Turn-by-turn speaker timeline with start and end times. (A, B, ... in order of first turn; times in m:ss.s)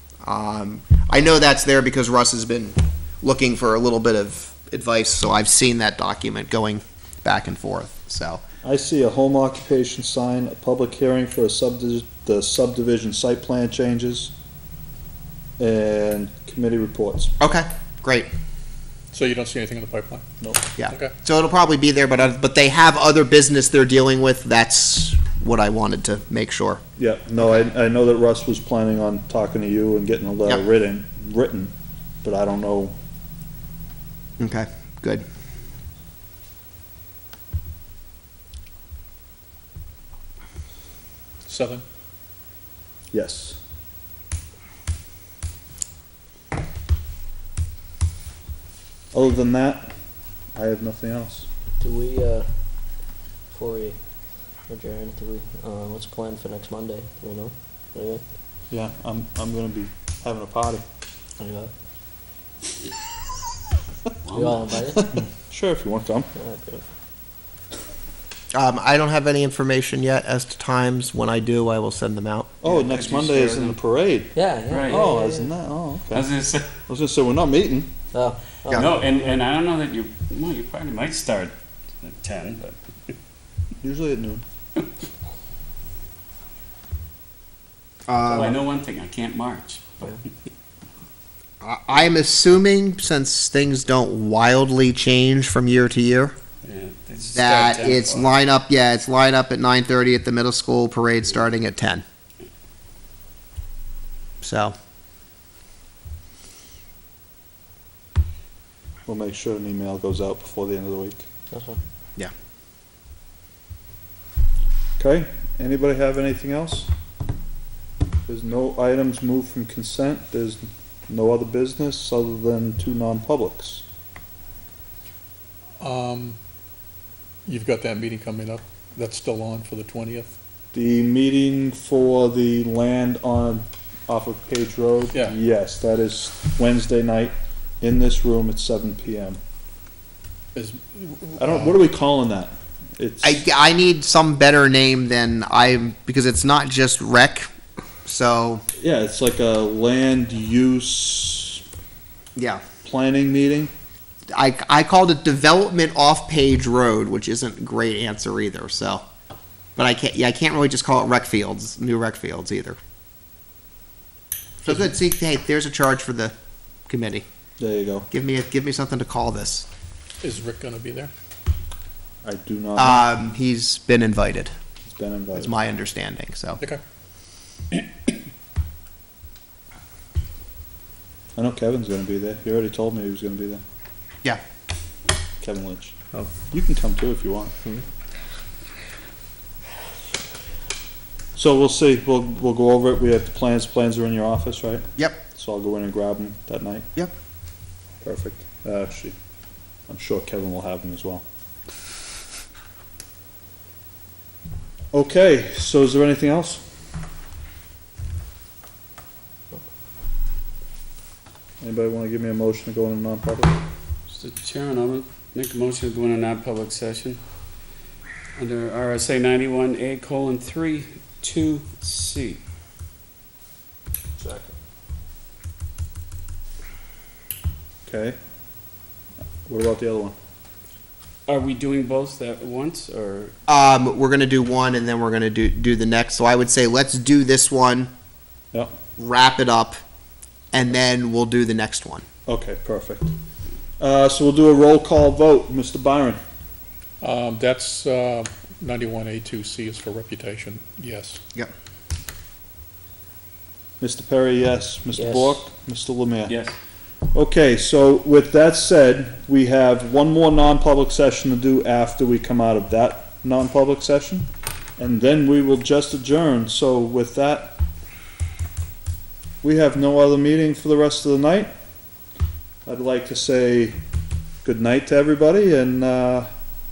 0:00.2-0:08.4 A
0:08.6-0:14.3 B
0:15.6-0:17.3 B
0:17.4-0:18.3 A
0:19.1-0:21.1 C
0:20.4-0:20.7 B
0:20.8-0:26.8 A
0:27.0-0:33.0 B
0:34.4-0:35.2 A
0:41.5-0:41.8 C
0:43.1-0:43.6 B
0:49.1-0:50.0 B
0:50.5-0:51.5 B
0:51.8-0:58.2 D
0:58.7-1:00.8 B
1:01.4-1:01.7 D
1:04.2-1:04.9 E
1:04.3-1:05.1 D
1:05.4-1:06.3 B
1:06.3-1:06.9 D
1:08.5-1:12.5 A
1:12.6-1:14.3 B
1:12.6-1:13.8 E
1:14.3-1:15.5 D
1:14.7-1:15.0 E
1:14.9-1:16.3 B
1:16.1-1:16.7 E
1:16.9-1:17.9 B
1:18.1-1:18.9 D
1:18.7-1:23.1 E
1:23.8-1:24.4 B
1:28.1-1:28.6 A
1:28.3-1:30.3 E
1:31.6-1:36.4 A
1:36.6-1:38.3 E
1:37.3-1:42.0 A
1:44.4-1:44.8 A
1:49.1-1:51.2 B
1:51.5-1:51.8 D
1:55.0-1:56.9 B
1:58.3-2:03.8 B
2:05.8-2:06.4 C
2:07.5-2:10.4 C
2:10.7-2:19.4 B
2:20.6-2:21.8 C
2:21.4-2:23.4 B
2:23.2-2:27.5 A
2:28.0-2:28.6 A
2:28.8-2:31.6 B
2:32.4-2:32.6 A
2:32.8-2:33.7 B
2:34.3-2:39.0 A
2:39.8-2:42.8 A
2:44.6-2:46.3 A
2:46.9-2:47.2 A
2:47.6-2:48.1 B
2:48.1-2:49.7 A
2:50.2-2:51.1 C
2:52.2-2:53.1 B
2:52.8-2:54.5 A
2:54.8-2:55.5 B
2:55.4-2:56.6 A
3:01.4-3:03.6 B
3:05.4-3:07.6 B
3:11.4-3:16.9 B
3:15.0-3:15.2 A
3:18.0-3:19.2 B
3:19.9-3:21.2 B
3:24.9-3:26.6 B
3:31.6-3:33.6 B
3:34.1-3:37.2 E
3:38.4-3:42.4 E
3:47.8-3:48.2 B
3:49.5-3:50.2 B
3:51.3-3:53.3 E
3:53.5-3:57.9 A
3:59.0-3:59.8 A
4:00.5-4:02.0 A
4:02.3-4:03.1 B
4:03.8-4:06.2 B
4:07.0-4:11.2 C
4:13.8-4:16.4 B
4:15.0-4:15.4 D
4:16.3-4:16.6 E
4:17.1-4:24.3 B
4:24.8-4:27.6 B
4:29.4-4:31.5 B
4:32.7-4:33.8 B
4:34.4-4:36.3 B